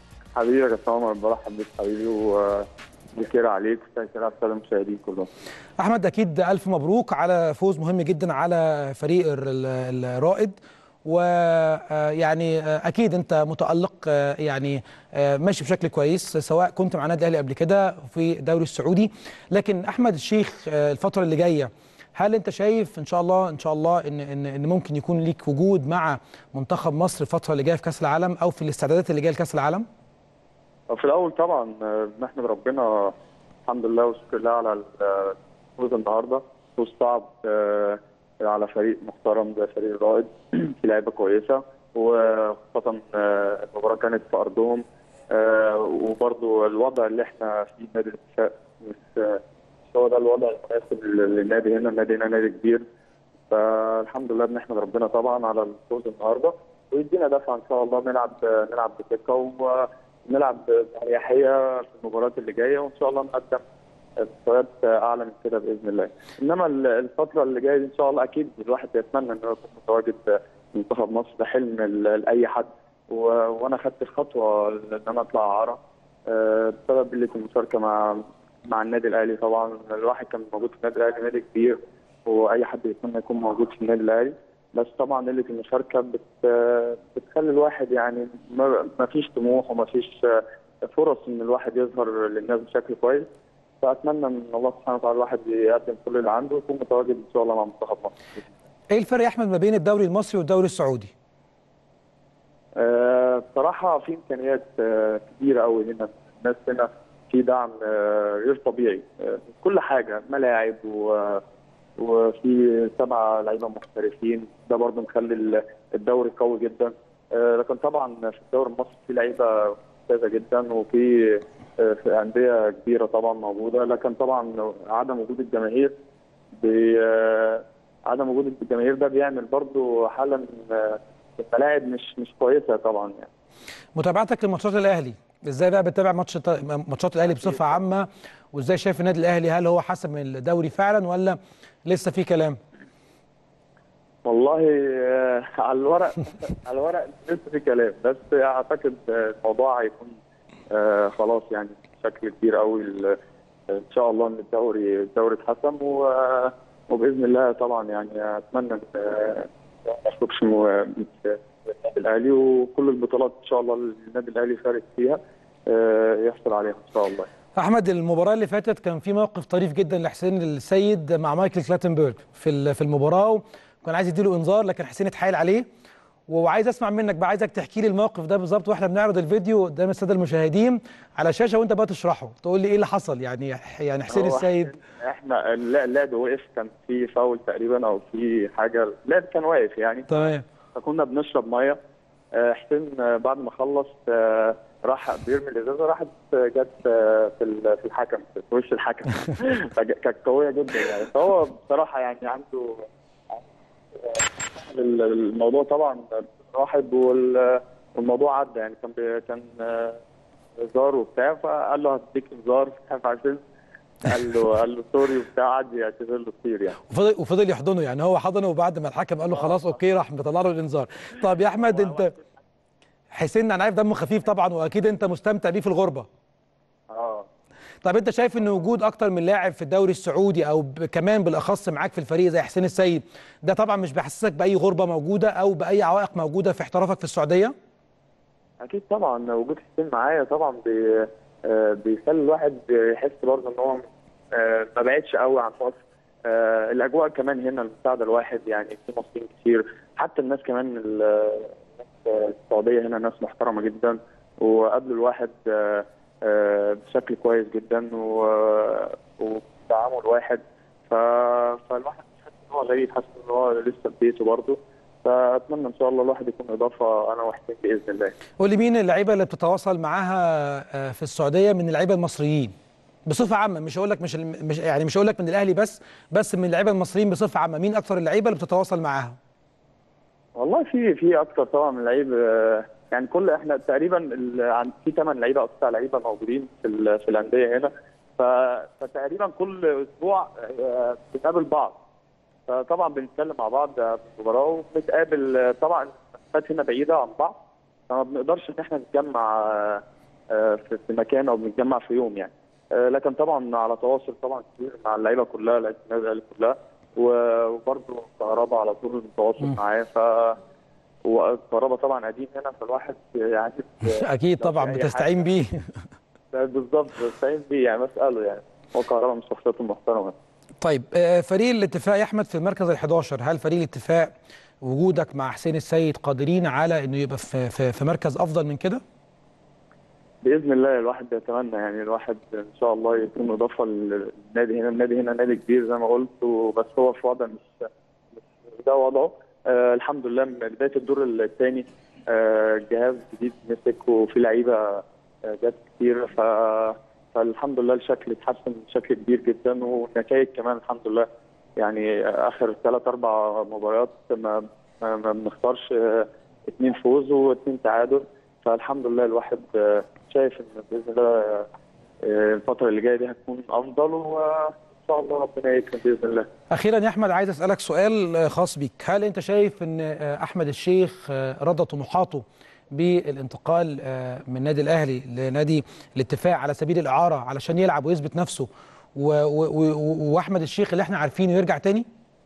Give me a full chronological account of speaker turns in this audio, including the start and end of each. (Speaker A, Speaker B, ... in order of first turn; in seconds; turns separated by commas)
Speaker A: 0.3-5.3, Speaker B: 5.8-29.8, Speaker A: 30.9-33.1, Speaker A: 33.6-49.4, Speaker A: 49.9-52.8, Speaker A: 53.5-63.6, Speaker A: 64.2-93.3, Speaker A: 93.8-98.4, Speaker B: 98.9-101.1, Speaker A: 102.8-111.4, Speaker A: 112.0-125.9, Speaker A: 126.6-133.3, Speaker B: 133.9-142.6, Speaker A: 137.3-137.8, Speaker A: 144.2-150.2, Speaker A: 150.7-153.2, Speaker A: 153.7-167.3, Speaker B: 167.6-175.6, Speaker B: 176.3-184.7, Speaker A: 184.1-190.2, Speaker B: 190.1-190.4, Speaker A: 190.7-191.8, Speaker A: 192.3-203.4, Speaker A: 203.9-210.0, Speaker A: 210.6-213.4, Speaker A: 214.0-216.8, Speaker B: 216.9-222.1, Speaker A: 219.3-219.6, Speaker A: 221.7-222.1, Speaker B: 223.1-226.1, Speaker A: 226.9-227.3, Speaker B: 227.8-237.5, Speaker A: 238.6-243.8, Speaker A: 244.3-268.1, Speaker B: 268.4-272.5, Speaker B: 273.1-279.1, Speaker A: 280.4-291.8, Speaker A: 292.5-297.4, Speaker A: 297.9-310.4, Speaker A: 311.0-315.3, Speaker B: 313.9-315.7, Speaker A: 316.3-320.1, Speaker B: 320.6-328.8, Speaker A: 330.2-337.5, Speaker A: 338.5-361.5, Speaker A: 362.0-366.3, Speaker B: 366.5-381.9